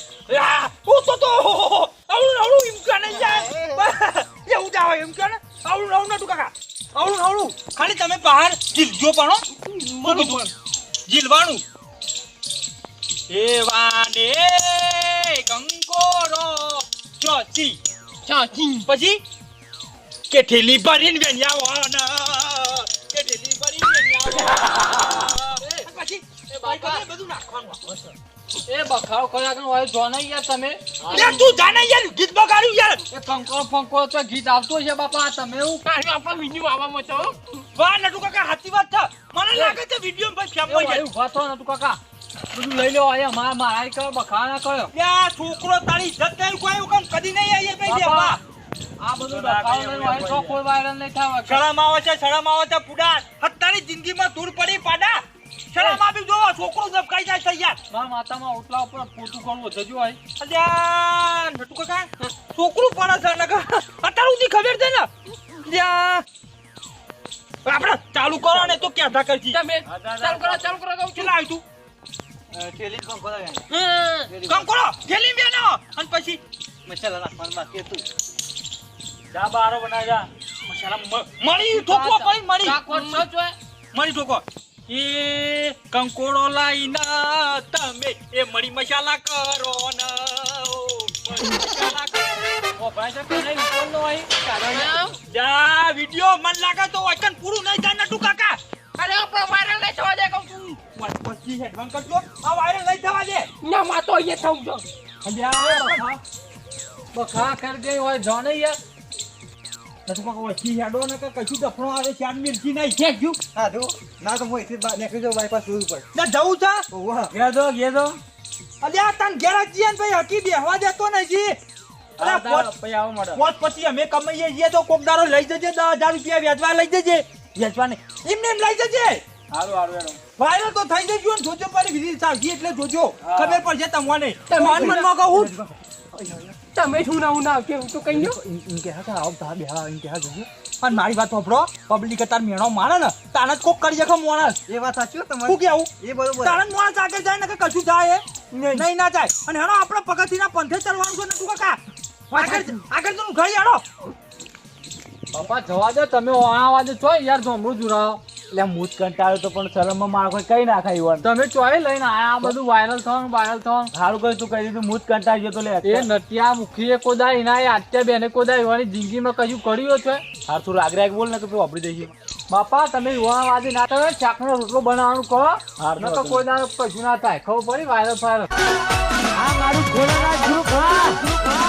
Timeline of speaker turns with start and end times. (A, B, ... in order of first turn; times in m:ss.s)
0:00.3-0:09.4 A
0:03.0-0:03.9 B
0:09.6-0:10.5 C
0:10.0-0:10.5 A
0:11.1-0:11.6 A
0:13.3-0:17.8 A
0:18.3-0:18.9 C
0:18.8-0:19.2 A
0:20.3-0:28.1 A
0:25.6-0:25.9 D
0:26.5-0:27.0 D
0:28.7-0:31.4 D
0:31.1-0:33.0 A
0:31.1-0:31.5 C
0:33.1-0:35.8 D
0:35.8-0:37.6 C
0:37.7-0:41.0 A
0:40.7-0:42.0 D
0:42.5-0:44.9 D
0:44.9-0:48.4 A
0:47.9-0:48.4 D
0:49.0-0:51.6 D
0:49.2-0:50.6 E
0:51.5-0:57.8 A
0:57.9-1:00.2 D
1:00.4-1:06.3 A
1:07.6-1:09.6 A
1:08.5-1:08.8 B
1:09.5-1:11.3 C
1:09.8-1:10.8 E
1:11.2-1:11.6 A
1:12.5-1:13.7 B
1:13.7-1:14.3 C
1:14.3-1:14.7 B
1:14.4-1:16.4 A
1:16.8-1:18.0 B
1:19.3-1:20.3 E
1:20.7-1:22.8 A
1:21.7-1:23.3 C
1:22.6-1:23.6 D
1:23.9-1:32.7 A
1:32.8-1:34.4 E
1:32.8-1:34.9 D
1:34.7-1:35.2 C
1:35.3-1:38.6 A
1:39.0-1:40.8 C
1:41.0-1:43.5 A
1:43.6-1:44.8 C
1:45.2-1:46.2 A
1:45.6-1:46.1 D
1:47.1-1:48.8 D
1:50.1-1:53.0 A
1:53.0-1:53.4 C
1:53.6-1:56.1 B
1:56.1-1:56.8 A
1:56.9-1:57.3 B
1:57.3-1:58.2 E
1:58.8-2:01.6 A
2:02.2-2:03.4 E
2:02.2-2:02.7 A
2:03.4-2:09.2 A
2:09.5-2:10.2 E
2:10.4-2:15.5 A
2:13.2-2:13.6 E
2:14.5-2:15.1 C
2:14.6-2:16.6 B
2:16.8-2:18.4 C
2:18.1-2:20.5 B
2:20.8-2:24.6 A
2:24.7-2:26.6 B
2:25.5-2:25.9 A
2:26.4-2:33.8 A
2:28.6-2:28.8 C
2:32.4-2:32.8 C
2:35.3-2:38.2 D
2:38.5-2:41.3 E
2:41.2-2:43.9 D
2:43.9-2:46.1 E
2:45.8-2:50.2 D
2:50.5-2:52.1 E
2:52.5-2:58.5 D
2:55.8-2:56.4 E
2:59.4-3:01.0 B
3:00.4-3:01.0 E